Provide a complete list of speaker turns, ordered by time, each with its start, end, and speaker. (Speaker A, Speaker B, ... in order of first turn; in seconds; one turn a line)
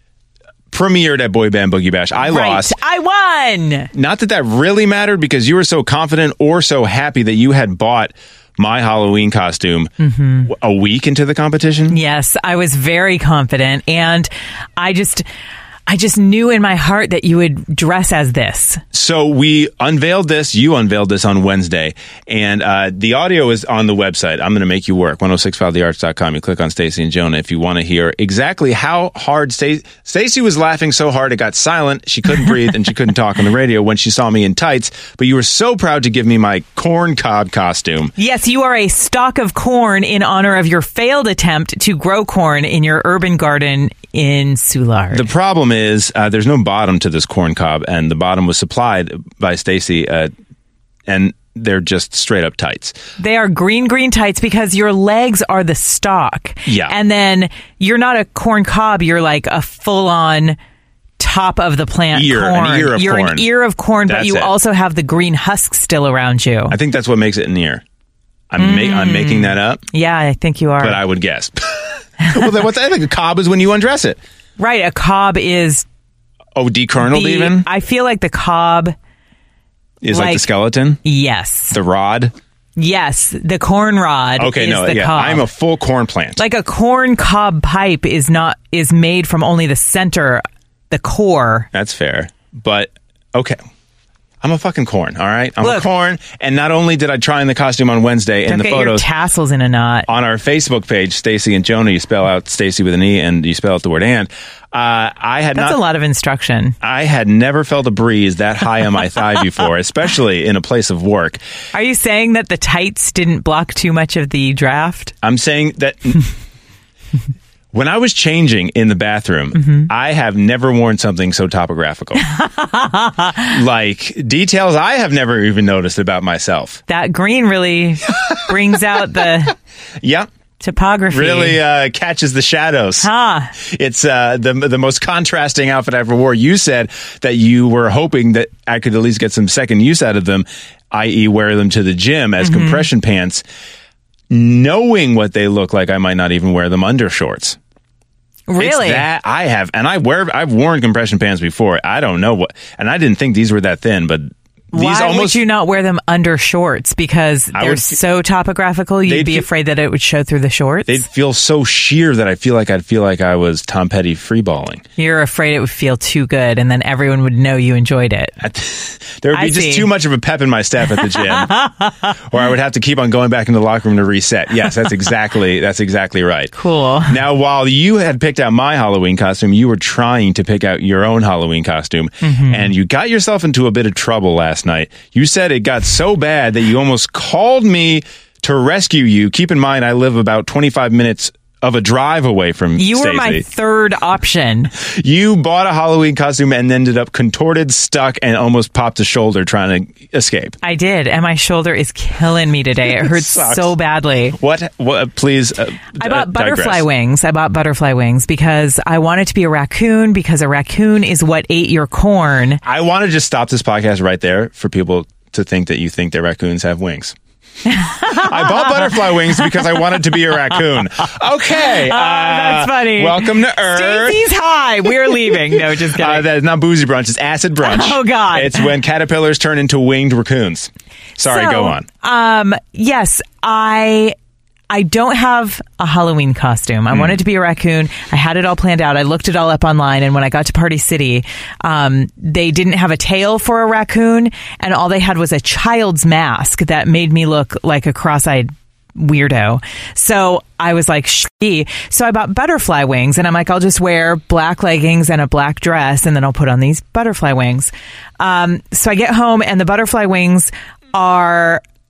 Speaker A: 0.7-2.8
Speaker B: 2.2-3.9
Speaker A: 3.9-9.9
Speaker B: 10.0-10.5
Speaker A: 10.4-12.0
Speaker B: 11.9-15.2
Speaker B: 15.9-18.8
Speaker A: 18.9-38.1
Speaker B: 38.2-45.3
Speaker A: 45.1-50.3
Speaker A: 51.1-53.0
Speaker B: 53.2-60.6
Speaker A: 56.6-56.9
Speaker B: 61.2-66.8
Speaker A: 62.1-63.5
Speaker A: 64.0-64.5
Speaker A: 66.7-67.8
Speaker A: 68.5-69.8
Speaker B: 68.6-71.0
Speaker A: 70.8-74.2
Speaker B: 74.6-75.8
Speaker A: 76.5-77.7
Speaker B: 77.0-78.9
Speaker A: 80.0-81.0
Speaker B: 80.1-80.5
Speaker B: 81.0-81.8
Speaker A: 81.7-82.3
Speaker B: 82.8-85.5
Speaker A: 84.4-86.4
Speaker B: 86.4-91.7
Speaker A: 91.7-93.6
Speaker A: 94.4-99.0
Speaker B: 95.6-95.9
Speaker B: 98.5-100.1
Speaker A: 100.1-105.8
Speaker B: 105.5-106.8
Speaker A: 106.8-111.4
Speaker B: 111.7-115.1
Speaker A: 115.2-116.2
Speaker A: 117.7-122.2
Speaker B: 119.6-119.9
Speaker B: 122.2-123.5
Speaker A: 123.4-126.8
Speaker B: 126.9-129.5
Speaker A: 128.2-128.4
Speaker A: 130.0-130.3
Speaker B: 130.6-131.6
Speaker A: 131.1-143.4
Speaker B: 133.0-133.5
Speaker B: 142.4-142.9
Speaker A: 144.3-147.6
Speaker B: 148.5-149.1
Speaker A: 148.6-155.4
Speaker B: 154.7-161.0
Speaker A: 157.5-158.0
Speaker A: 159.1-159.5
Speaker A: 160.9-164.8
Speaker B: 165.0-168.4
Speaker A: 168.4-171.5
Speaker B: 169.3-169.9
Speaker B: 171.1-171.9
Speaker A: 172.1-176.5
Speaker B: 176.6-177.2
Speaker A: 177.1-193.4
Speaker B: 182.2-182.7
Speaker B: 192.8-194.7
Speaker A: 194.8-200.6
Speaker B: 200.6-204.4
Speaker A: 202.8-203.7
Speaker A: 204.3-206.8
Speaker B: 206.0-212.6
Speaker A: 212.6-217.1
Speaker B: 217.7-219.8
Speaker A: 218.0-224.2
Speaker B: 221.6-226.2
Speaker A: 225.1-231.8
Speaker B: 227.6-228.7
Speaker B: 231.2-234.1
Speaker B: 234.7-261.6
Speaker A: 236.9-237.2